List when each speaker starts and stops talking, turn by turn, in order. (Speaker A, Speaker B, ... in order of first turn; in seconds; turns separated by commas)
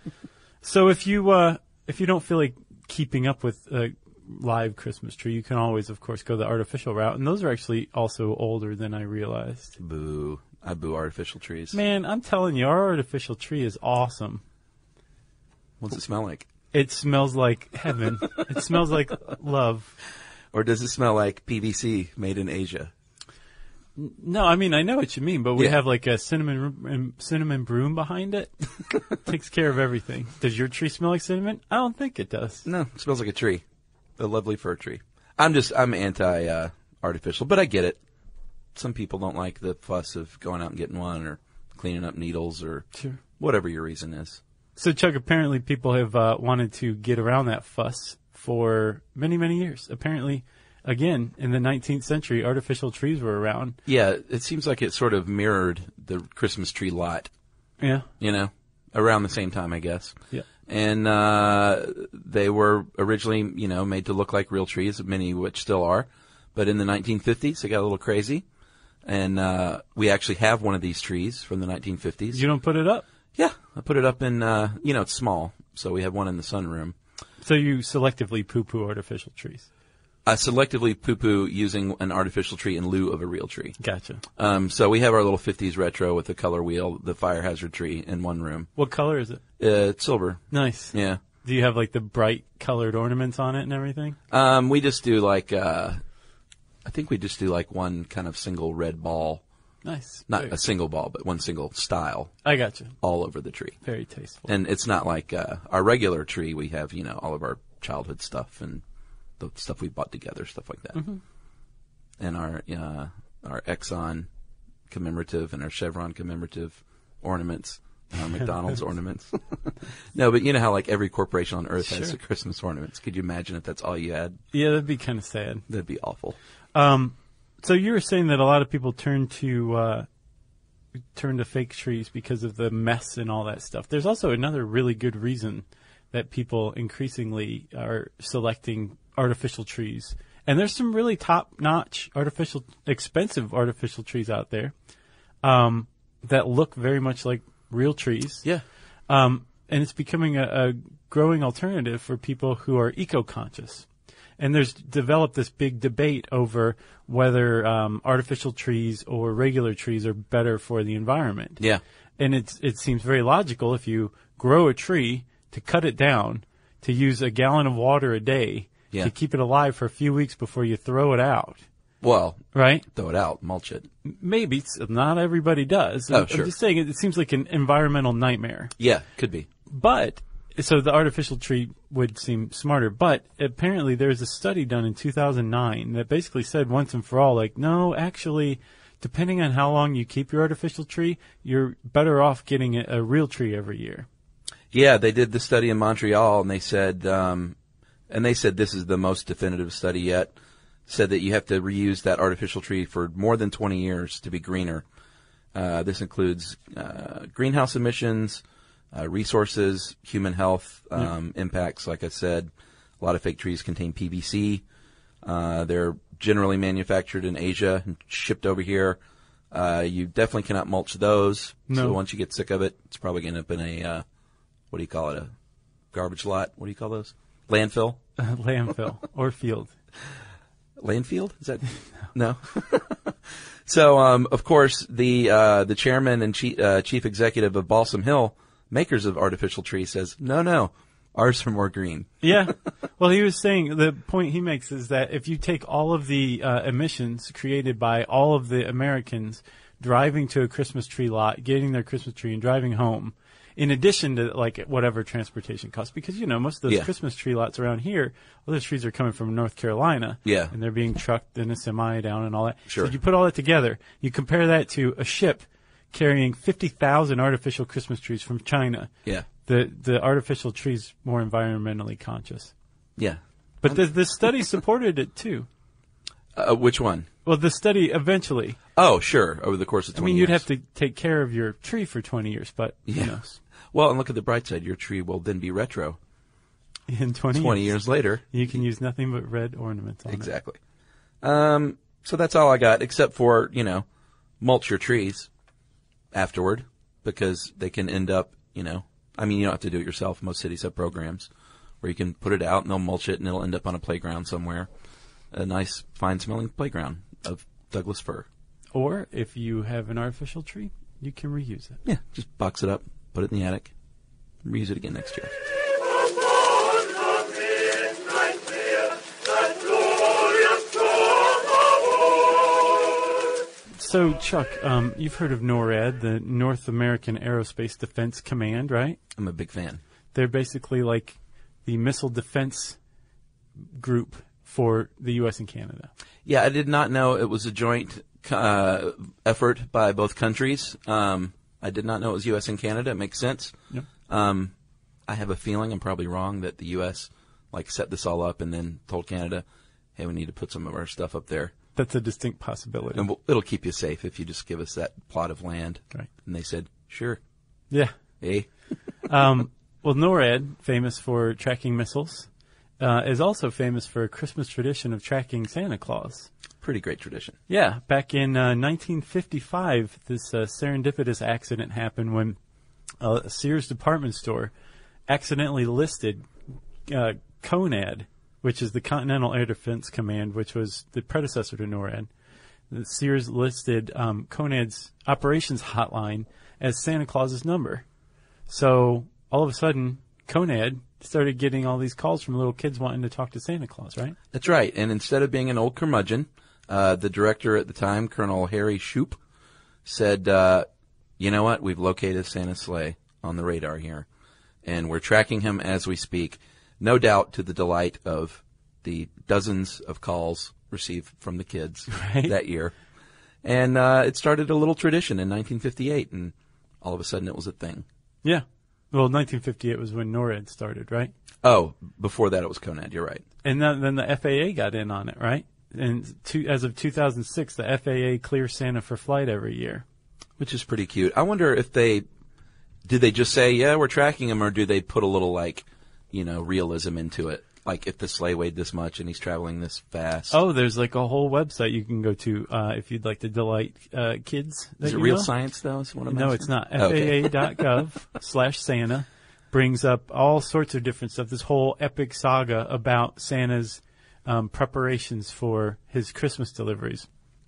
Speaker A: 0.6-9.8, Speaker B: 9.8-11.8, Speaker A: 11.7-14.4, Speaker B: 15.8-16.5, Speaker A: 16.7-19.9, Speaker B: 20.5-22.9, Speaker A: 24.0-32.7, Speaker B: 32.6-33.6, Speaker B: 34.2-38.0, Speaker B: 38.8-42.9, Speaker B: 43.4-44.4, Speaker A: 44.8-53.8, Speaker B: 53.9-57.3, Speaker A: 57.8-58.1, Speaker B: 58.2-68.4, Speaker B: 69.0-72.5, Speaker A: 72.3-73.1, Speaker B: 73.4-77.0, Speaker A: 77.4-79.7, Speaker B: 80.3-83.8, Speaker A: 83.8-84.2, Speaker B: 84.4-88.7, Speaker A: 88.8-89.4, Speaker B: 89.6-91.2, Speaker A: 90.5-94.2, Speaker B: 94.3-96.0, Speaker B: 96.8-99.4, Speaker A: 99.8-100.5, Speaker B: 100.3-102.4, Speaker A: 102.4-103.0, Speaker B: 103.0-103.8, Speaker A: 103.8-104.5, Speaker B: 104.5-108.8, Speaker B: 109.4-111.0, Speaker A: 111.0-111.2, Speaker B: 112.2-114.3, Speaker B: 114.9-124.4, Speaker A: 121.8-122.1, Speaker A: 124.5-125.6, Speaker B: 125.7-126.4, Speaker A: 126.8-130.1, Speaker A: 131.2-144.7, Speaker A: 145.4-148.4, Speaker A: 149.1-153.9, Speaker A: 154.4-161.6, Speaker A: 162.2-171.6, Speaker B: 172.0-173.9, Speaker A: 172.5-172.8, Speaker A: 174.0-178.7, Speaker B: 176.1-176.5, Speaker B: 178.8-179.5, Speaker A: 179.7-194.1, Speaker B: 194.7-197.6, Speaker B: 198.1-200.3, Speaker B: 200.9-204.8, Speaker B: 205.5-208.4, Speaker B: 208.9-214.6, Speaker B: 215.2-219.0, Speaker B: 219.5-224.0, Speaker A: 221.7-222.0, Speaker B: 224.7-225.3, Speaker B: 225.9-228.0, Speaker A: 228.2-229.7, Speaker B: 230.8-233.1, Speaker B: 233.7-242.3, Speaker A: 242.2-268.9, Speaker B: 260.2-260.5, Speaker B: 262.7-262.9, Speaker A: 269.5-272.5, Speaker B: 273.0-273.8, Speaker A: 273.6-275.5, Speaker B: 276.4-277.1, Speaker A: 277.2-278.6, Speaker B: 278.8-280.4, Speaker A: 279.9-283.4, Speaker B: 282.9-283.2, Speaker B: 283.7-286.0, Speaker A: 286.9-287.7, Speaker B: 287.3-288.3, Speaker A: 288.3-290.3, Speaker B: 290.1-290.6, Speaker B: 291.2-293.9, Speaker B: 294.4-295.3, Speaker B: 296.1-301.3, Speaker B: 301.8-304.7, Speaker B: 305.3-308.3, Speaker A: 308.7-311.8, Speaker B: 311.9-313.7, Speaker B: 314.4-315.4, Speaker A: 323.8-329.0, Speaker B: 329.2-329.8, Speaker A: 330.1-332.8, Speaker A: 333.7-335.9, Speaker B: 336.3-343.6, Speaker B: 344.1-344.5, Speaker B: 345.1-349.4, Speaker B: 350.0-351.5, Speaker A: 351.8-353.0, Speaker B: 352.9-357.2, Speaker B: 358.2-358.5, Speaker A: 359.1-362.3, Speaker A: 362.8-366.3, Speaker B: 366.6-367.4, Speaker A: 367.5-372.4, Speaker A: 373.0-374.5, Speaker A: 375.1-376.3, Speaker A: 376.9-382.1, Speaker A: 382.7-387.9, Speaker A: 388.5-394.2, Speaker B: 394.3-399.2, Speaker B: 399.9-400.7, Speaker B: 401.2-404.1, Speaker B: 404.6-412.7, Speaker A: 411.9-412.3, Speaker B: 413.4-417.9, Speaker A: 418.2-421.1, Speaker B: 421.4-423.2, Speaker A: 423.4-429.9, Speaker B: 430.4-432.0, Speaker B: 432.9-440.4, Speaker A: 440.3-445.3, Speaker B: 444.8-447.5, Speaker A: 446.1-457.1